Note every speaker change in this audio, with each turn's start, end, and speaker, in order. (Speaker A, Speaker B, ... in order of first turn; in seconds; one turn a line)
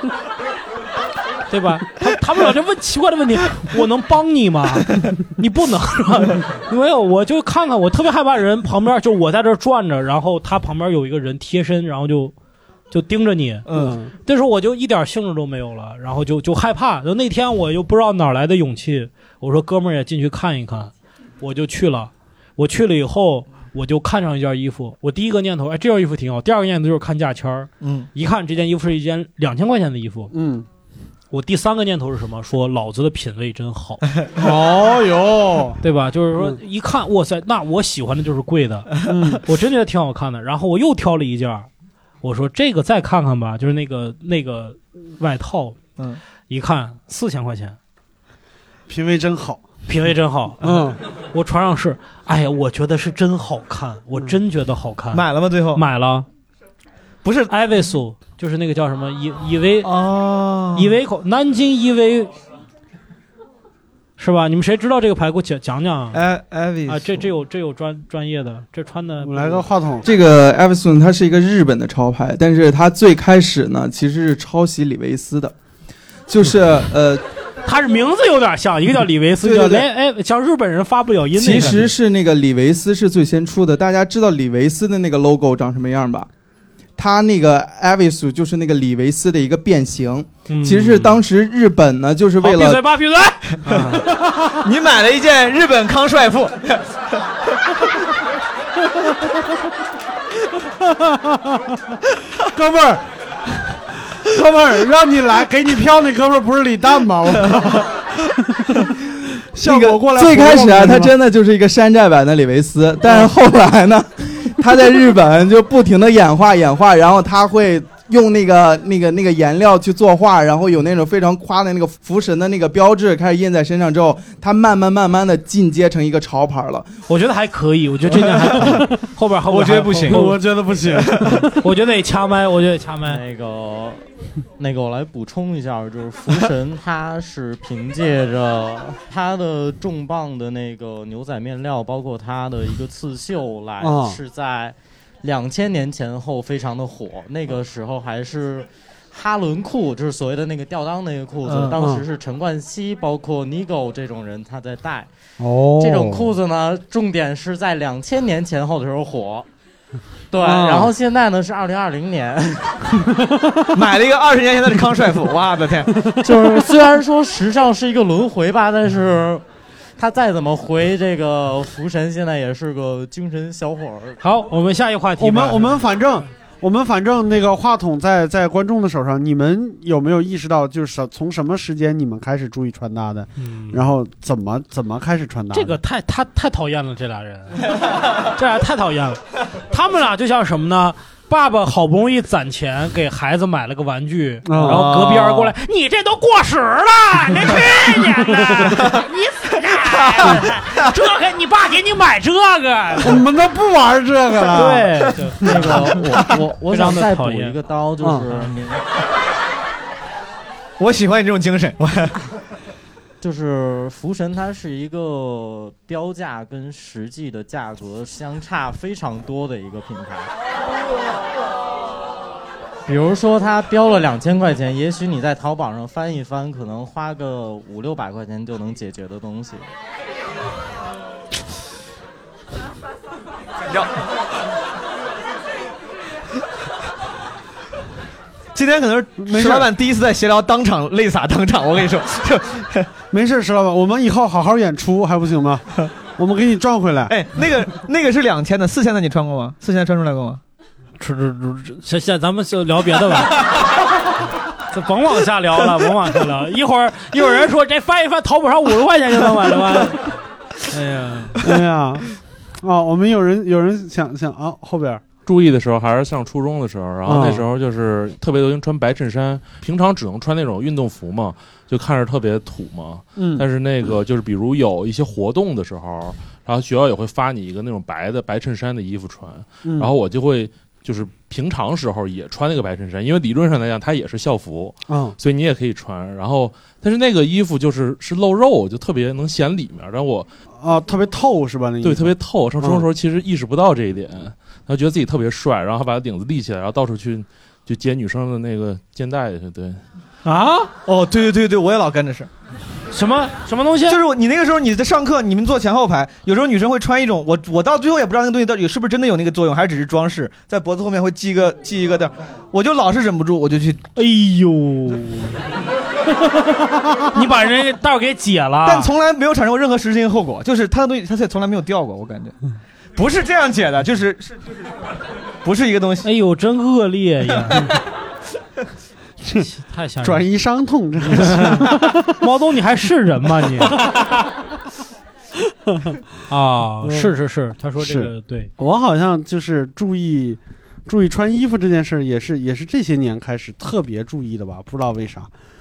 Speaker A: 1.5-12.3
Speaker A: 12.9-30.3
Speaker B: 13.7-14.0
Speaker C: 13.7-14.1
Speaker B: 27.8-28.1
Speaker C: 30.3-30.7
Speaker A: 31.3-34.0
Speaker C: 34.4-35.8
Speaker A: 35.8-41.7
Speaker C: 39.0-39.4
Speaker A: 42.2-45.8
Speaker A: 46.5-47.8
Speaker C: 48.9-49.6
Speaker A: 49.9-50.8
Speaker C: 50.6-51.0
Speaker A: 51.3-56.3
Speaker B: 55.1-55.8
Speaker B: 57.2-57.5
Speaker A: 57.5-59.9
Speaker B: 59.8-61.0
Speaker A: 60.8-62.3
Speaker A: 64.2-66.2
Speaker B: 66.1-67.3
Speaker A: 66.9-69.6
Speaker C: 69.2-70.1
Speaker D: 70.0-75.5
Speaker D: 76.3-77.2
Speaker A: 77.7-81.9
Speaker D: 79.4-79.9
Speaker D: 81.4-86.3
Speaker B: 81.5-81.7
Speaker D: 87.0-92.8
Speaker A: 90.5-91.2
Speaker A: 92.4-94.1
Speaker B: 93.6-97.2
Speaker C: 101.0-101.8
Speaker C: 102.4-103.0
Speaker C: 103.6-108.9
Speaker C: 109.5-111.2
Speaker D: 109.6-126.9
Speaker C: 113.0-113.3
Speaker A: 127.1-130.4
Speaker B: 128.5-128.8
Speaker B: 129.5-130.3
Speaker C: 130.1-131.5
Speaker B: 131.0-131.4
Speaker A: 131.6-133.2
Speaker E: 133.1-134.0
Speaker E: 134.6-155.1
Speaker C: 143.8-144.2
Speaker C: 151.7-152.0
Speaker C: 155.4-156.3
Speaker E: 155.8-159.5
Speaker E: 160.3-162.9
Speaker C: 160.4-160.9
Speaker B: 163.7-166.0
Speaker E: 166.2-169.4
Speaker E: 170.0-174.2
Speaker A: 174.2-175.8
Speaker C: 175.2-185.8
Speaker A: 183.4-183.9
Speaker A: 185.5-203.2
Speaker C: 194.4-194.9
Speaker B: 194.6-195.5
Speaker C: 203.0-205.6
Speaker A: 204.5-207.6
Speaker E: 205.4-208.8
Speaker B: 210.8-212.2
Speaker E: 213.2-220.3
Speaker E: 222.9-229.7
Speaker B: 238.6-242.9
Speaker C: 239.2-239.7
Speaker C: 243.1-245.7
Speaker C: 246.2-247.1
Speaker B: 247.1-250.4
Speaker A: 251.0-253.5
Speaker A: 254.7-260.1
Speaker A: 260.7-261.4
Speaker C: 261.4-262.1
Speaker C: 262.6-265.0
Speaker F: 265.2-290.3
Speaker C: 267.1-267.5
Speaker C: 273.2-273.5
Speaker C: 279.6-279.9
Speaker C: 284.9-285.2
Speaker C: 290.6-292.9
Speaker F: 291.8-299.8
Speaker A: 300.2-300.7
Speaker B: 300.9-302.3
Speaker A: 302.9-304.0
Speaker B: 303.9-313.8
Speaker A: 313.9-315.4
Speaker A: 317.1-318.9
Speaker B: 318.6-322.4
Speaker B: 323.0-324.5
Speaker B: 325.4-326.1
Speaker A: 326.0-327.8
Speaker A: 329.3-330.3
Speaker C: 330.0-332.0
Speaker A: 331.0-333.8
Speaker C: 335.7-336.0
Speaker A: 336.3-338.5
Speaker C: 336.8-337.1
Speaker C: 337.8-345.3